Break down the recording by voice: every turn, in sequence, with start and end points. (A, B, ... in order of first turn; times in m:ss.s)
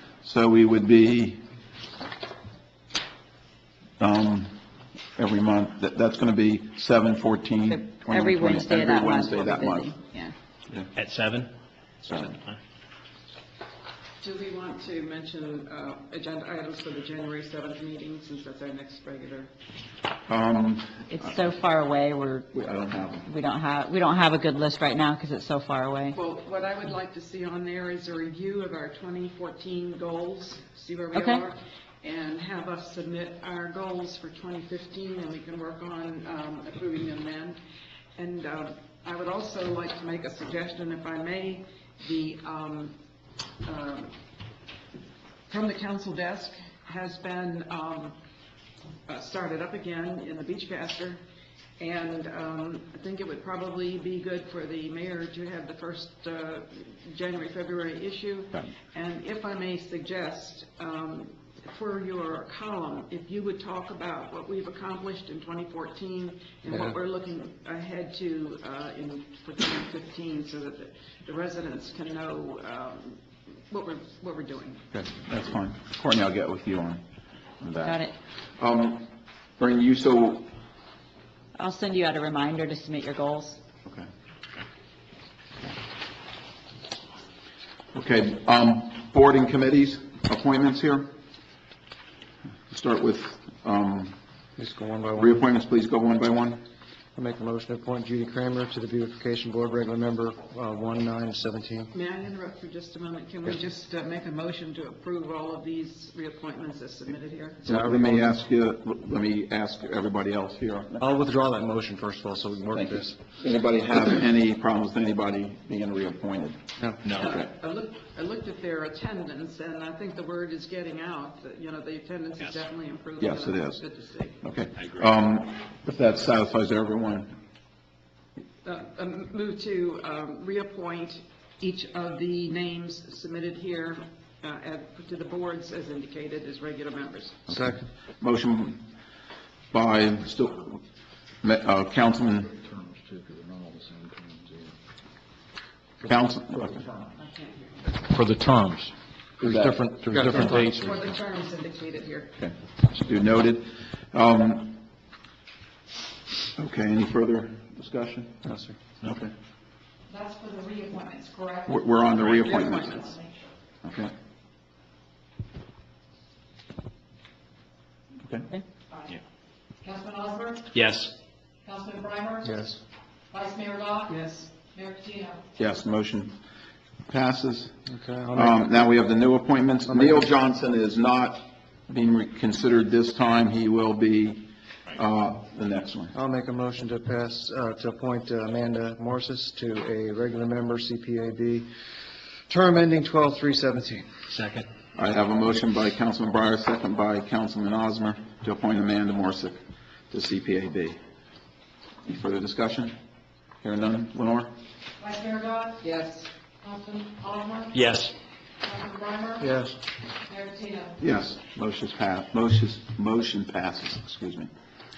0:00.2-0:01.4 A
0:04.0-0:04.5 A
0:05.2-0:09.9 A
0:07.7-0:10.3 B
0:10.9-0:11.5 C
0:12.0-0:12.6 C
0:14.2-0:19.5 D
0:20.3-0:21.3 A
0:21.1-0:22.5 B
0:22.5-0:23.3 A
0:23.2-0:26.2 B
0:26.1-0:37.6 D
0:31.1-0:31.4 B
0:38.2-0:43.0 D
0:43.6-0:44.1 D
0:45.5-0:48.2 D
0:49.1-0:51.2 D
0:51.8-1:14.8 D
1:14.9-1:17.0 A
1:17.6-1:18.0 A
1:17.8-1:18.1 B
1:18.6-1:19.1 A
1:19.6-1:20.5 A
1:21.5-1:23.6 B
1:27.9-1:31.1 A
1:32.7-1:34.2 A
1:34.6-1:35.4 E
1:35.2-1:36.6 A
1:37.1-1:41.9 E
1:41.9-1:47.6 D
1:47.6-1:48.4 E
1:47.6-1:51.0 A
1:51.0-1:53.2 E
1:52.7-1:56.6 A
1:57.1-2:04.4 D
1:57.2-1:57.5 A
2:03.2-2:03.8 A
2:04.4-2:07.3 A
2:04.8-2:05.0 C
2:08.6-2:17.4 D
2:17.5-2:17.8 E
2:18.2-2:18.8 A
2:19.7-2:20.8 A
2:21.4-2:22.6 A
2:22.6-2:24.8 F
2:26.0-2:26.8 A
2:28.1-2:31.0 F
2:29.4-2:29.8 A
2:29.4-2:30.8 E
2:30.3-2:32.4 D
2:32.4-2:34.8 A
2:36.6-2:38.4 A
2:38.4-2:38.8 E
2:39.0-2:39.3 A
2:40.1-2:41.7 G
2:41.7-2:43.1 A
2:42.2-2:43.3 D
2:43.8-2:44.1 A
2:49.8-2:50.7 G
2:50.7-2:51.1 C
2:51.6-2:52.4 G
2:52.4-2:52.8 E
2:53.3-2:54.1 G
2:54.1-2:54.5 D
2:54.7-2:55.4 G
2:55.6-2:56.3 A
2:57.1-2:57.7 A
2:57.9-2:59.0 E
2:58.3-3:06.1 A
2:59.9-3:00.3 E
3:06.1-3:11.7 E
3:12.5-3:14.1 E
3:15.0-3:19.6 A
3:20.1-3:21.0 A
3:22.0-3:22.9 A
3:23.6-3:24.5 A
3:25.0-3:25.7 G
3:25.8-3:26.3 D
3:26.6-3:27.7 G
3:27.7-3:28.1 C
3:28.6-3:29.4 G
3:29.4-3:29.7 E
3:30.3-3:30.9 G
3:31.0-3:34.5 A